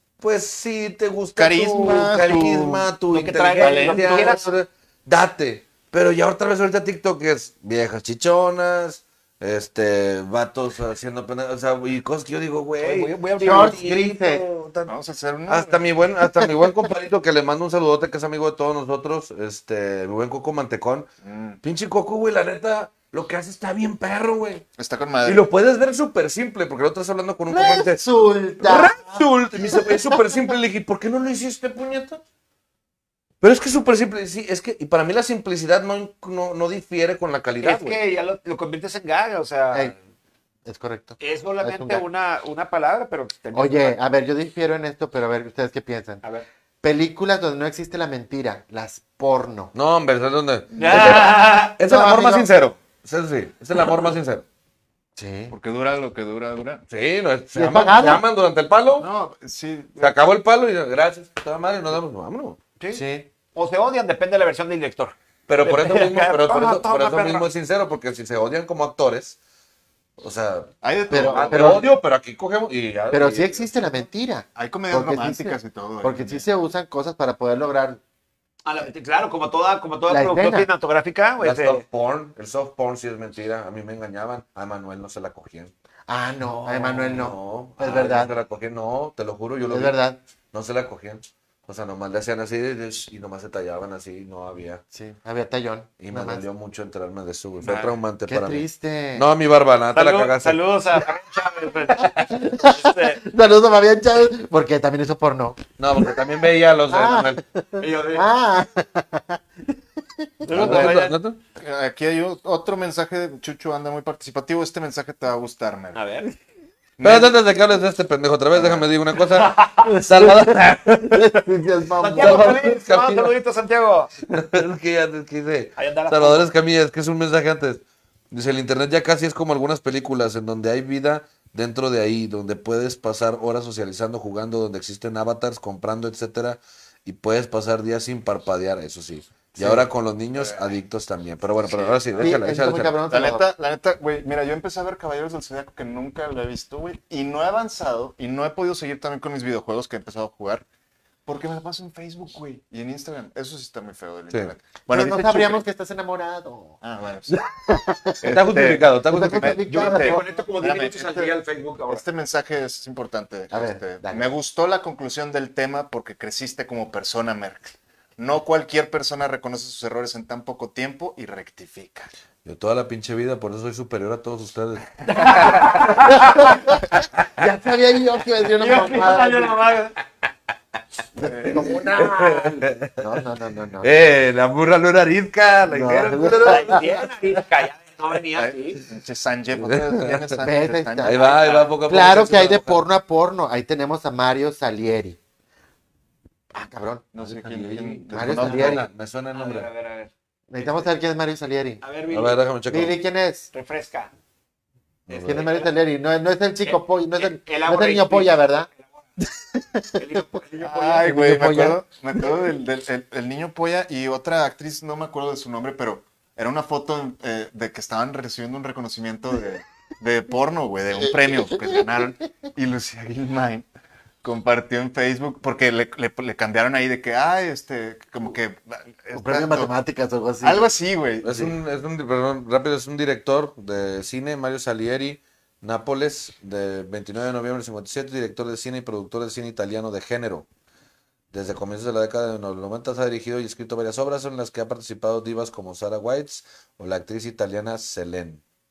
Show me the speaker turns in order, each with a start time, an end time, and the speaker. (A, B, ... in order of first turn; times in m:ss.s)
0:00.2-0:14.9 A
0:01.4-0:02.9 B
0:03.1-0:04.4 C
0:03.6-0:04.4 B
0:12.8-0:13.8 C
0:13.4-0:14.4 D
0:14.9-0:15.8 B
0:15.5-0:21.1 A
0:21.2-0:21.6 B
0:21.6-0:24.6 A
0:24.8-0:25.4 B
0:25.2-0:28.1 A
0:27.5-0:30.5 D
0:28.6-0:32.2 A
0:33.4-0:38.0 A
0:37.6-0:40.0 C
0:40.6-0:42.0 D
0:41.2-0:44.0 C
0:43.5-0:46.2 D
0:46.8-0:49.7 D
0:49.7-0:54.4 A
0:50.8-0:51.0 B
0:50.8-0:51.8 C
0:51.8-0:52.5 D
0:55.2-0:55.5 D
0:55.5-0:56.8 B
0:56.9-0:59.1 A
0:57.5-0:58.2 D
0:59.0-1:00.1 B
1:00.0-1:02.6 A
1:02.8-1:07.5 C
1:02.9-1:03.3 D
1:05.5-1:09.4 A
1:10.2-1:13.7 A
1:10.8-1:11.9 B
1:11.1-1:11.9 D
1:13.1-1:18.0 D
1:14.6-1:16.4 B
1:18.6-1:21.8 C
1:20.1-1:20.7 D
1:21.4-1:25.7 A
1:26.1-1:28.3 D
1:26.6-1:29.9 A
1:29.7-1:30.2 D
1:30.5-1:34.8 A
1:34.9-1:36.4 D
1:36.0-1:40.6 A
1:37.6-1:37.9 C
1:38.3-1:39.2 D
1:39.9-1:43.2 C
1:42.1-1:46.1 D
1:45.8-1:47.4 A
1:46.9-1:50.9 D
1:47.8-1:48.3 C
1:50.4-1:51.2 C
1:50.5-1:51.4 A
1:51.6-1:56.0 B
1:55.9-1:56.3 C
1:57.0-1:57.3 B
1:57.0-2:01.4 A
1:58.5-1:58.9 B
1:59.5-1:59.8 C
1:59.8-2:02.6 D
2:02.0-2:04.1 C
2:02.1-2:03.3 A
2:04.3-2:22.9 A
2:05.8-2:06.5 C
2:19.6-2:19.8 D
2:20.4-2:20.6 B
2:21.7-2:22.3 B
2:22.2-2:23.4 D
2:23.1-2:30.6 B
2:31.2-2:35.6 B
2:34.9-2:36.8 D
2:36.8-2:37.4 B
2:37.7-2:38.5 D
2:38.2-2:39.6 A
2:38.2-2:41.3 B
2:39.0-2:40.2 D
2:39.7-2:42.0 C
2:41.9-2:52.1 B
2:43.5-2:44.2 D
2:52.4-2:56.5 A
2:55.0-2:56.2 C
2:55.8-2:59.6 D
2:58.5-3:00.0 C
3:01.2-3:03.9 D
3:01.2-3:01.7 B
3:01.5-3:03.0 A
3:03.8-3:07.0 A
3:05.6-3:06.8 D
3:06.2-3:08.8 C
3:08.3-3:11.3 B
3:09.6-3:10.4 A
3:10.4-3:11.2 D
3:11.0-3:12.8 A
3:11.1-3:11.7 C
3:11.9-3:15.2 D
3:16.5-3:17.1 D
3:17.1-3:18.8 B
3:17.2-3:19.7 A
3:18.1-3:18.9 D
3:19.3-3:20.9 C
3:20.5-3:21.8 D
3:21.8-3:22.4 C
3:22.1-3:23.0 A
3:22.7-3:23.5 D
3:23.5-3:24.1 C
3:25.1-3:25.4 A
3:25.1-3:28.7 D
3:25.1-3:25.7 C
3:26.6-3:28.9 C
3:29.2-3:30.2 D
3:30.0-3:31.1 C
3:30.6-3:43.6 B
3:31.0-3:32.3 D
3:41.2-3:42.0 D
3:44.2-3:49.7 B
3:49.1-3:50.7 D
3:50.4-3:51.5 B
3:51.2-4:00.5 A
4:01.3-4:08.4 A